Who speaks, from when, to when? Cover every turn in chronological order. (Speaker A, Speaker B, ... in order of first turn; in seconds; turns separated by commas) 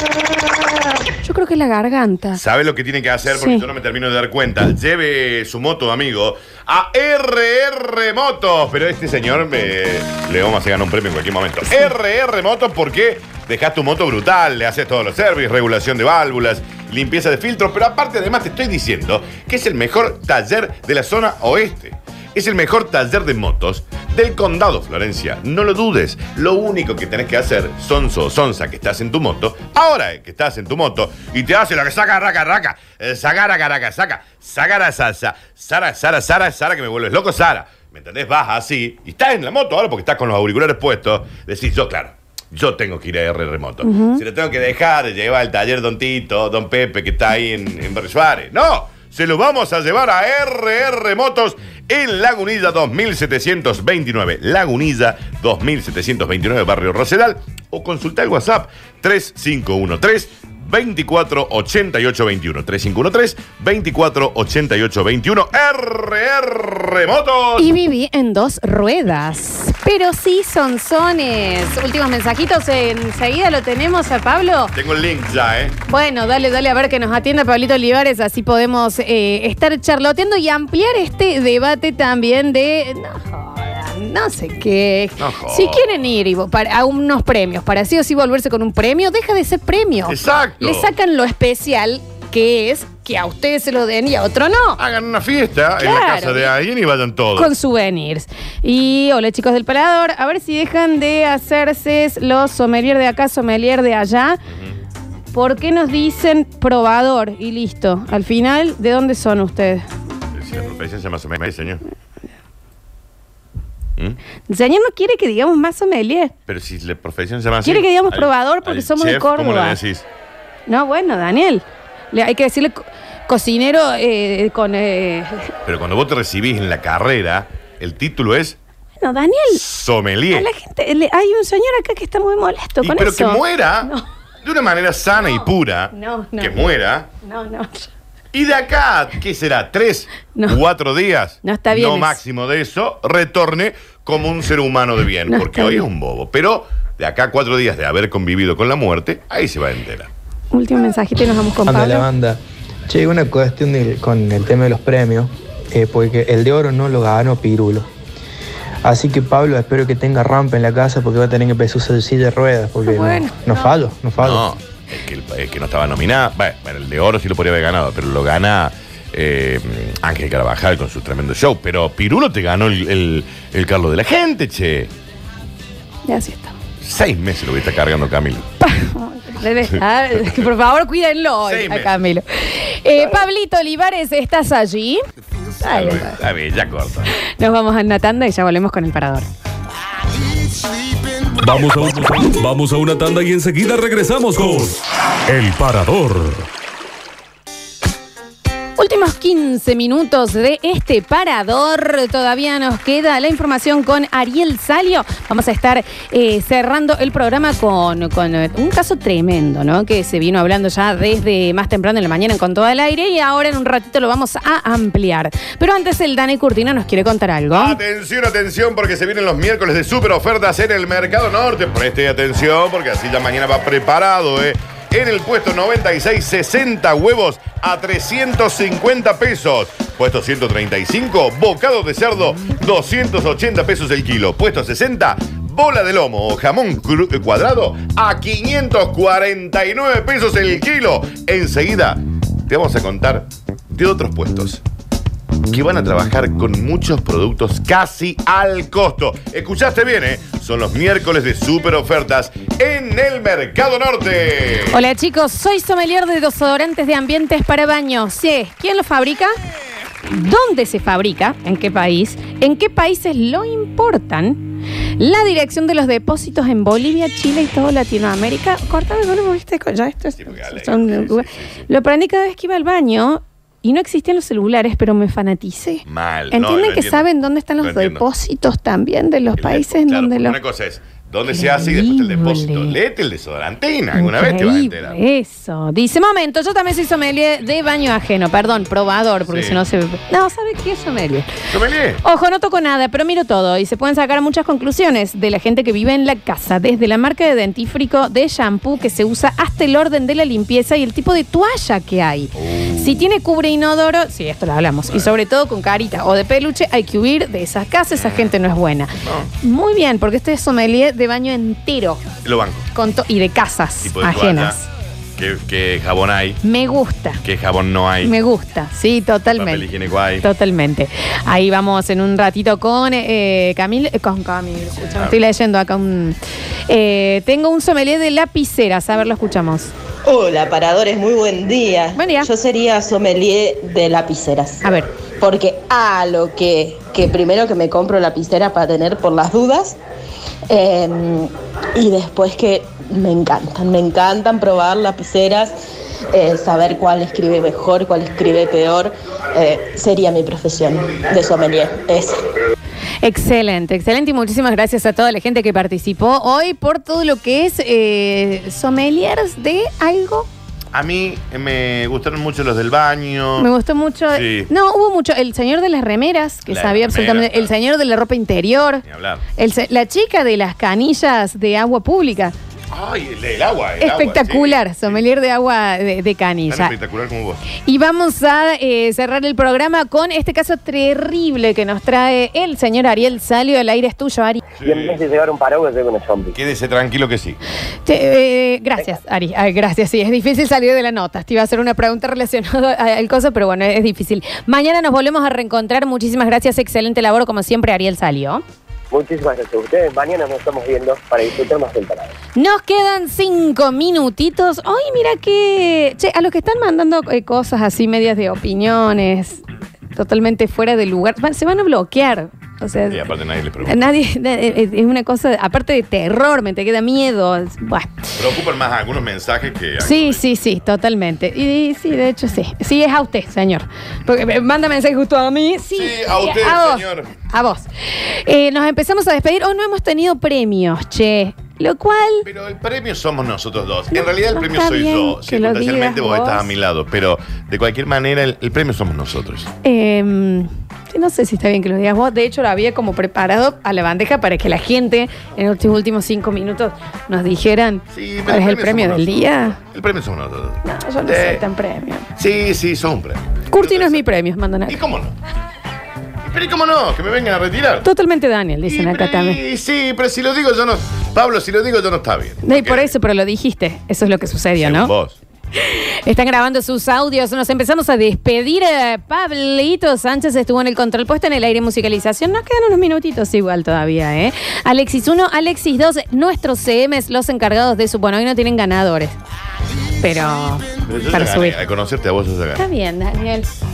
Speaker A: 1.1-2.4, Speaker B: 2.3-67.7, Speaker A: 3.3-3.6, Speaker A: 43.8-44.2, Speaker A: 67.6-74.7, Speaker B: 69.1-69.4, Speaker B: 74.7-75.8, Speaker A: 75.9-94.8, Speaker B: 85.2-85.8, Speaker B: 90.1-90.9, Speaker B: 94.8-97.5, Speaker A: 95.8-96.5, Speaker A: 97.3-104.4, Speaker B: 104.5-104.8, Speaker A: 105.3-109.9, Speaker B: 110.3-111.8, Speaker A: 114.5-116.3, Speaker B: 116.5-120.0, Speaker A: 117.6-119.8, Speaker A: 120.7-125.5, Speaker B: 125.7-128.6, Speaker A: 129.0-129.6, Speaker B: 129.5-130.5, Speaker A: 130.3-134.0, Speaker B: 132.8-133.9, Speaker B: 134.4-137.1, Speaker A: 135.2-136.5, Speaker A: 137.2-137.9, Speaker B: 138.3-150.1, Speaker A: 140.3-140.6, Speaker A: 141.4-142.2, Speaker A: 145.3-145.8, Speaker A: 150.5-152.1, Speaker C: 151.7-157.9, Speaker C: 158.8-164.5, Speaker A: 162.8-163.7, Speaker B: 164.2-174.9, Speaker A: 176.1-176.6, Speaker B: 176.8-178.4, Speaker A: 178.6-185.0, Speaker B: 181.4-181.9, Speaker A: 185.6-186.2, Speaker B: 185.7-187.1, Speaker A: 187.4-189.3, Speaker D: 191.4-196.5, Speaker A: 198.8-217.8, Speaker B: 217.5-244.6, Speaker B: 245.5-254.8, Speaker A: 254.7-259.3, Speaker A: 260.1-280.4, Speaker B: 270.2-271.7, Speaker B: 275.9-277.1, Speaker B: 277.6-278.0, Speaker B: 279.3-285.0, Speaker A: 281.3-282.8, Speaker A: 283.9-291.3, Speaker B: 289.3-289.6, Speaker B: 291.5-292.0, Speaker A: 292.0-312.0, Speaker B: 302.4-303.1, Speaker B: 307.9-308.3, Speaker B: 309.0-309.3, Speaker B: 312.2-312.7, Speaker A: 312.7-314.6, Speaker B: 313.8-314.6, Speaker B: 315.2-316.4, Speaker A: 316.4-317.2, Speaker B: 317.2-318.1, Speaker A: 318.0-319.6, Speaker B: 319.3-320.2, Speaker A: 320.2-326.2, Speaker B: 324.9-325.2, Speaker A: 326.7-329.7, Speaker E: 330.0-339.8, Speaker A: 331.9-332.3, Speaker A: 334.6-334.9, Speaker E: 340.5-345.6, Speaker E: 346.1-352.2, Speaker B: 350.7-352.5, Speaker A: 353.0-360.3, Speaker B: 360.7-363.5, Speaker A: 363.4-368.8, Speaker B: 364.1-364.5, Speaker B: 366.5-367.5, Speaker B: 368.8-369.2, Speaker A: 369.4-372.3, Speaker B: 372.7-375.0, Speaker A: 373.8-376.7, Speaker B: 376.5-377.4, Speaker A: 377.6-384.4, Speaker B: 384.6-385.0, Speaker F: 384.6-386.4, Speaker B: 386.3-387.4, Speaker A: 387.9-398.4, Speaker F: 398.9-402.1, Speaker A: 402.4-409.4, Speaker A: 409.9-413.0, Speaker B: 412.9-414.0, Speaker A: 413.6-417.9, Speaker B: 418.2-420.2, Speaker A: 419.8-432.2, Speaker B: 425.7-427.1, Speaker B: 432.2-439.5, Speaker A: 433.9-436.5, Speaker A: 439.6-449.6, Speaker B: 447.9-451.4, Speaker A: 450.6-452.1, Speaker B: 452.2-454.1, Speaker A: 453.5-454.8, Speaker B: 454.7-455.1, Speaker B: 456.2-457.9, Speaker A: 457.8-459.4, Speaker B: 458.6-462.9, Speaker A: 462.4-464.9, Speaker B: 464.3-465.2, Speaker A: 465.6-479.1, Speaker A: 480.0-481.6, Speaker B: 480.9-482.6, Speaker A: 482.6-483.5